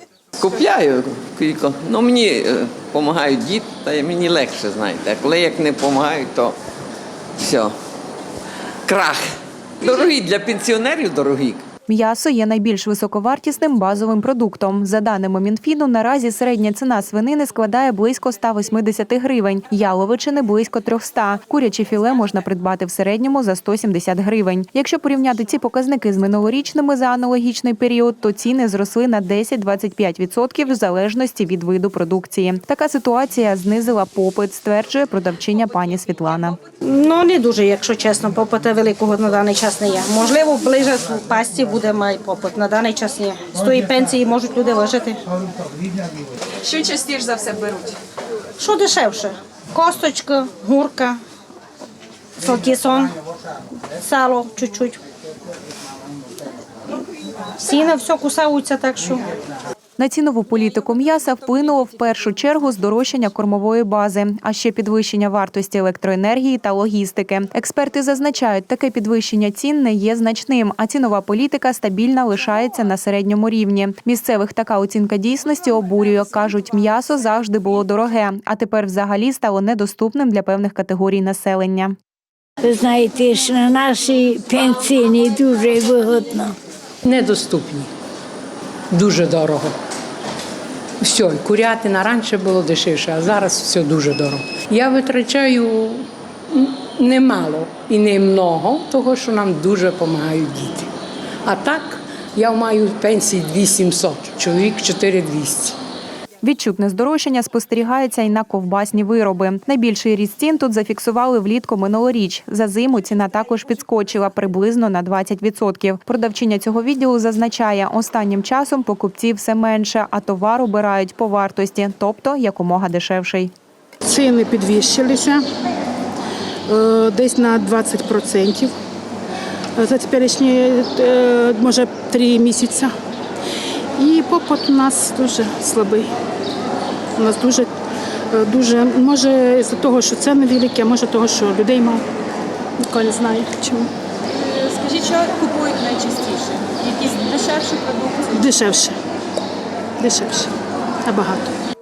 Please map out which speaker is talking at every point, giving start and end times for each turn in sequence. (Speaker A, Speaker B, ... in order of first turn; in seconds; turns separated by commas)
Speaker A: 0.4-6.5, Speaker A: 7.4-7.7, Speaker A: 8.8-9.2, Speaker A: 9.8-11.6, Speaker B: 11.9-36.6, Speaker C: 36.8-45.2, Speaker D: 46.7-47.7, Speaker B: 46.9-47.9, Speaker C: 48.6-51.2, Speaker C: 52.4-53.1, Speaker C: 54.0-55.0, Speaker C: 57.6-59.2, Speaker B: 60.0-82.0, Speaker E: 82.6-86.6, Speaker F: 87.0-87.9, Speaker F: 88.9-89.7, Speaker F: 91.0-100.9, Speaker F: 101.4-105.8, Speaker B: 106.4-123.5, Speaker G: 124.0-125.4, Speaker G: 126.7-128.7, Speaker G: 129.8-132.9, Speaker G: 133.9-136.1, Speaker G: 137.2-137.7, Speaker G: 138.3-142.0, Speaker G: 142.8-143.9, Speaker D: 144.7-148.2, Speaker G: 148.3-149.0, Speaker G: 150.0-150.5, Speaker G: 151.1-151.5